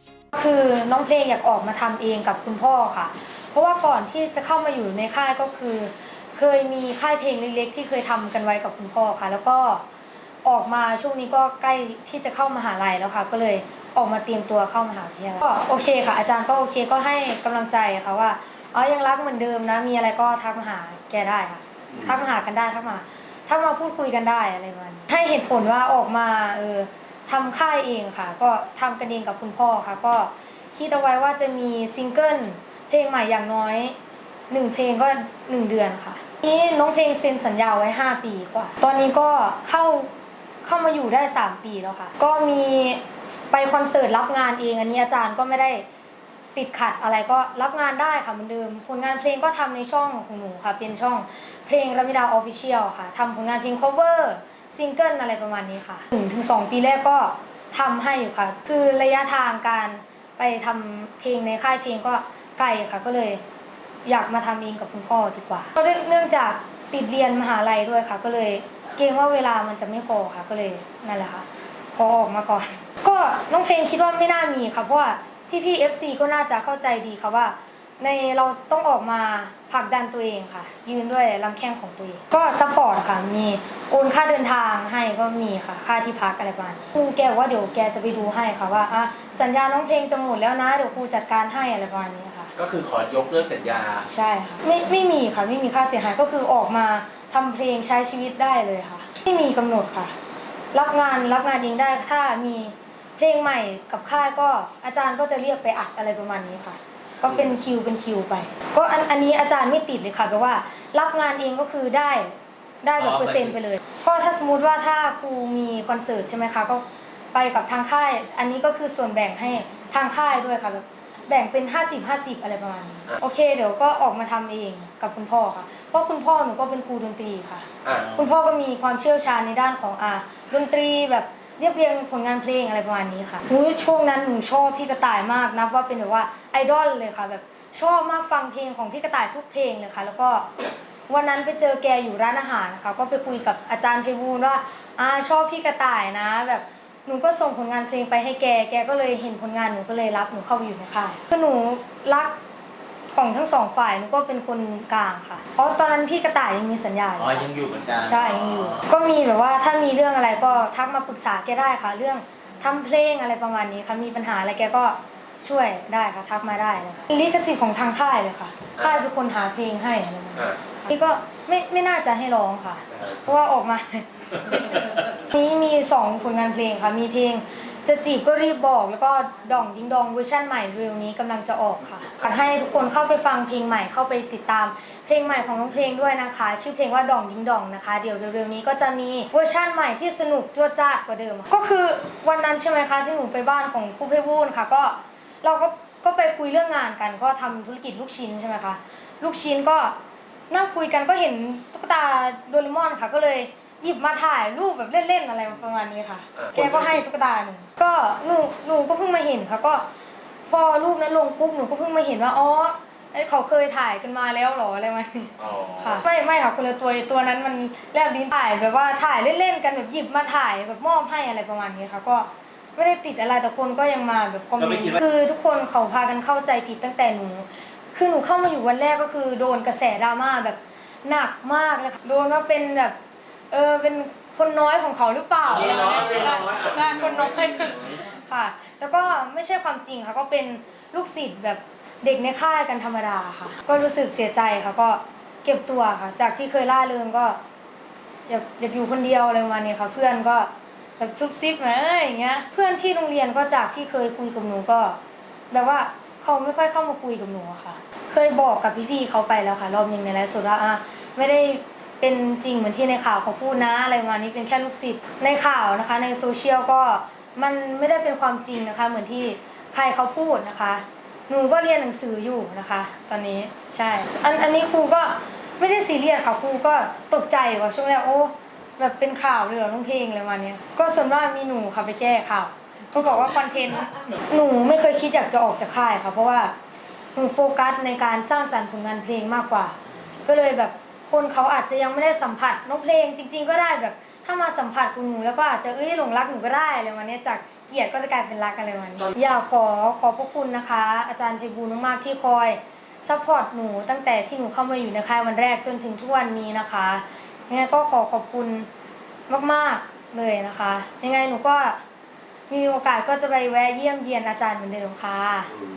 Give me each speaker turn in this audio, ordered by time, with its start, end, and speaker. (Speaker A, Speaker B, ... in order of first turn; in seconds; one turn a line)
Speaker A: 0.3-9.8
Speaker A: 10.4-34.0
Speaker A: 34.5-40.1
Speaker A: 40.6-45.9
Speaker A: 46.5-63.4
Speaker A: 64.0-92.5
Speaker B: 92.6-94.0
Speaker A: 94.1-100.2
Speaker A: 100.7-140.5
Speaker C: 113.0-113.5
Speaker A: 141.1-152.4
Speaker A: 153.1-157.5
Speaker C: 157.2-158.8
Speaker A: 158.0-200.0
Speaker A: 200.5-209.9
Speaker B: 206.4-206.8
Speaker A: 210.5-233.0
Speaker B: 215.4-216.0
Speaker C: 224.6-225.0
Speaker A: 233.5-247.4
Speaker C: 235.6-236.6
Speaker A: 248.3-255.0
Speaker A: 255.5-286.6
Speaker A: 287.1-308.7
Speaker A: 309.3-311.8
Speaker A: 312.5-315.5